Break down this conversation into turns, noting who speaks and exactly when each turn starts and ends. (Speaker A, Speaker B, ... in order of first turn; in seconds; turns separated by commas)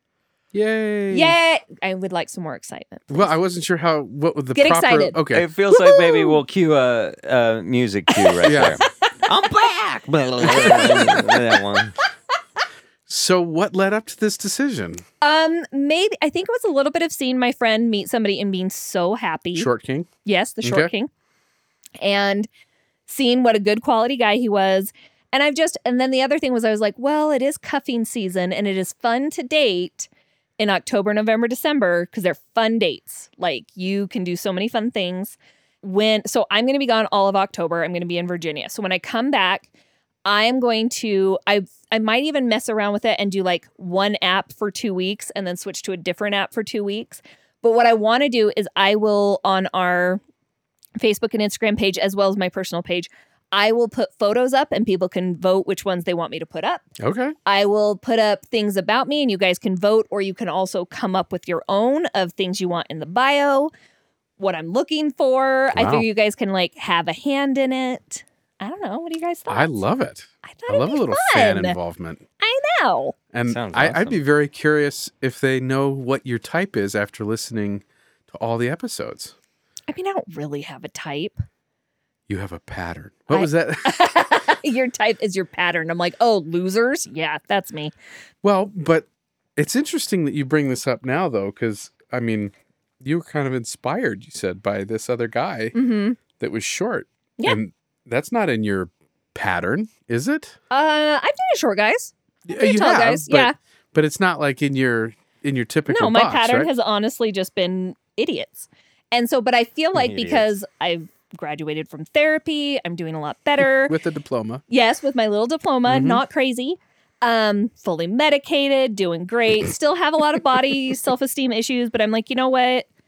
Speaker A: 0.5-1.4, Speaker B: 1.1-3.3, Speaker A: 3.1-5.5, Speaker B: 4.5-5.2, Speaker C: 5.3-11.9, Speaker B: 5.7-6.4, Speaker B: 8.1-9.1, Speaker A: 8.4-8.8, Speaker B: 10.4-11.6, Speaker A: 10.6-10.9, Speaker A: 13.1-15.0, Speaker B: 15.2-19.7, Speaker A: 19.6-20.1, Speaker B: 20.2-21.1, Speaker A: 20.6-20.9, Speaker B: 22.0-22.5, Speaker B: 23.1-39.7, Speaker B: 40.3-50.2, Speaker B: 51.0-56.9, Speaker A: 57.0-57.4, Speaker B: 57.5-63.7, Speaker B: 64.4-69.8, Speaker A: 65.8-66.1, Speaker A: 69.5-72.2, Speaker B: 70.4-71.8, Speaker B: 72.4-73.2, Speaker A: 73.3-79.3, Speaker C: 73.5-74.2, Speaker B: 79.9-81.4, Speaker A: 82.3-84.0, Speaker B: 83.3-87.9, Speaker A: 88.4-95.8, Speaker B: 95.7-96.2, Speaker A: 96.3-100.6, Speaker B: 100.7-103.5, Speaker A: 102.5-106.7, Speaker B: 105.9-114.0, Speaker C: 110.0-110.5, Speaker A: 113.8-114.6, Speaker B: 114.7-122.9, Speaker A: 115.9-116.2